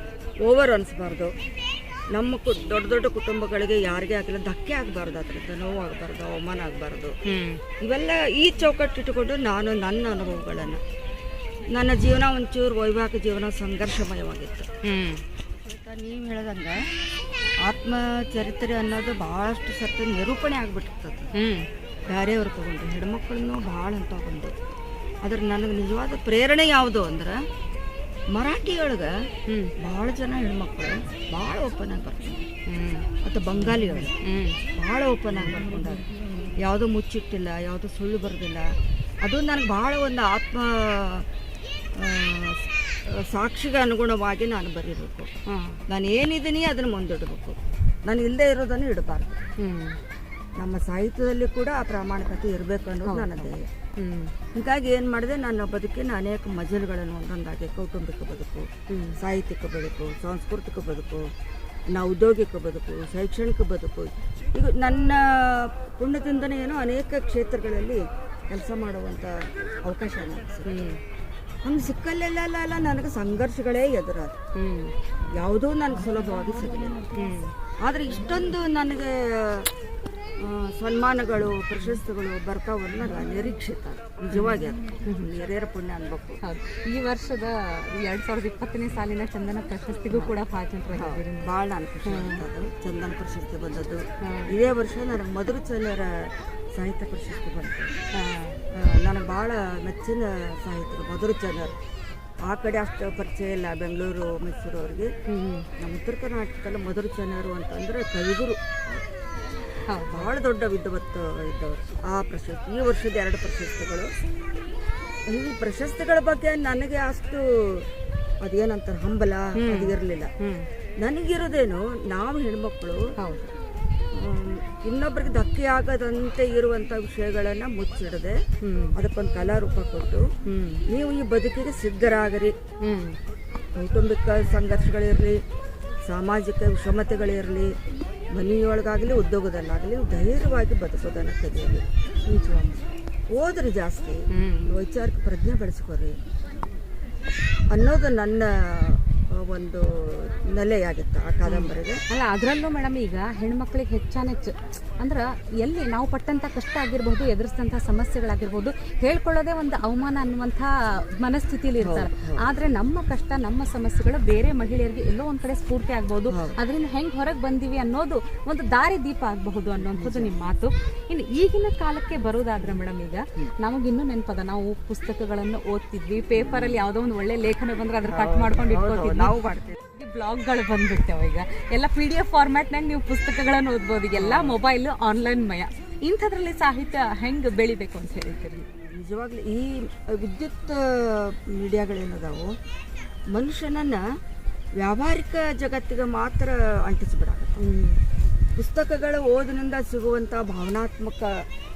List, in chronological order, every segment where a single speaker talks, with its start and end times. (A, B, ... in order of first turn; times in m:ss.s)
0:00.4-0:01.3 A
0:02.1-0:07.1 A
0:07.2-0:07.6 B
0:07.8-0:10.8 A
0:11.7-0:14.7 A
0:14.8-0:15.2 B
0:15.6-0:16.9 A
0:17.6-0:21.3 A
0:21.3-0:21.7 B
0:22.1-0:24.5 A
0:25.2-0:27.5 A
0:28.3-0:29.3 A
0:29.5-0:29.7 B
0:29.8-0:32.5 A
0:32.6-0:34.6 B
0:33.2-0:34.2 A
0:34.7-0:41.2 A
0:42.0-0:45.3 A
0:45.5-0:45.8 B
0:45.9-0:49.4 A
0:49.6-0:50.0 B
0:50.6-0:53.7 A
0:53.0-0:54.3 B
0:54.5-0:58.7 A
0:58.9-0:59.2 B
0:59.2-1:01.3 A
1:01.9-1:10.9 A
1:10.6-1:11.0 B
1:11.6-1:14.4 A
1:14.5-1:14.9 B
1:15.3-1:17.1 A
1:17.1-1:17.5 B
1:17.8-1:19.7 A
1:20.4-1:26.4 A
1:24.3-1:25.3 B
1:26.4-1:31.5 B
1:30.1-1:37.9 A
1:32.0-1:32.4 B
1:34.2-1:34.6 B
1:38.1-1:38.6 B
1:38.7-1:41.7 A
1:42.4-1:45.1 A
1:45.3-1:45.7 B
1:45.8-1:49.0 A
1:49.9-1:50.3 B
1:50.0-1:54.1 A
1:55.3-1:57.9 A
1:58.4-2:00.3 A
1:59.6-2:00.7 B
2:01.0-2:03.0 A
2:03.2-2:03.5 B
2:04.1-2:08.4 A
2:08.6-2:09.0 B
2:08.9-2:10.2 A
2:10.4-2:10.8 B
2:10.9-2:12.5 A
2:12.8-2:13.2 B
2:13.7-2:15.4 A
2:16.0-2:17.7 A
2:18.3-2:22.8 A
2:22.3-2:22.7 B
2:23.3-2:26.2 A
2:24.3-2:24.8 B
2:27.7-2:32.0 A
2:31.4-3:08.7 B
2:41.8-2:42.4 A
2:46.3-2:46.6 A
2:49.8-2:50.4 A
2:56.3-2:56.8 A
2:58.0-2:59.8 A
3:04.1-3:04.6 A
3:08.8-3:12.5 A
3:13.3-3:14.0 A
3:14.8-3:17.6 A
3:17.6-3:18.0 B
3:18.6-3:21.4 A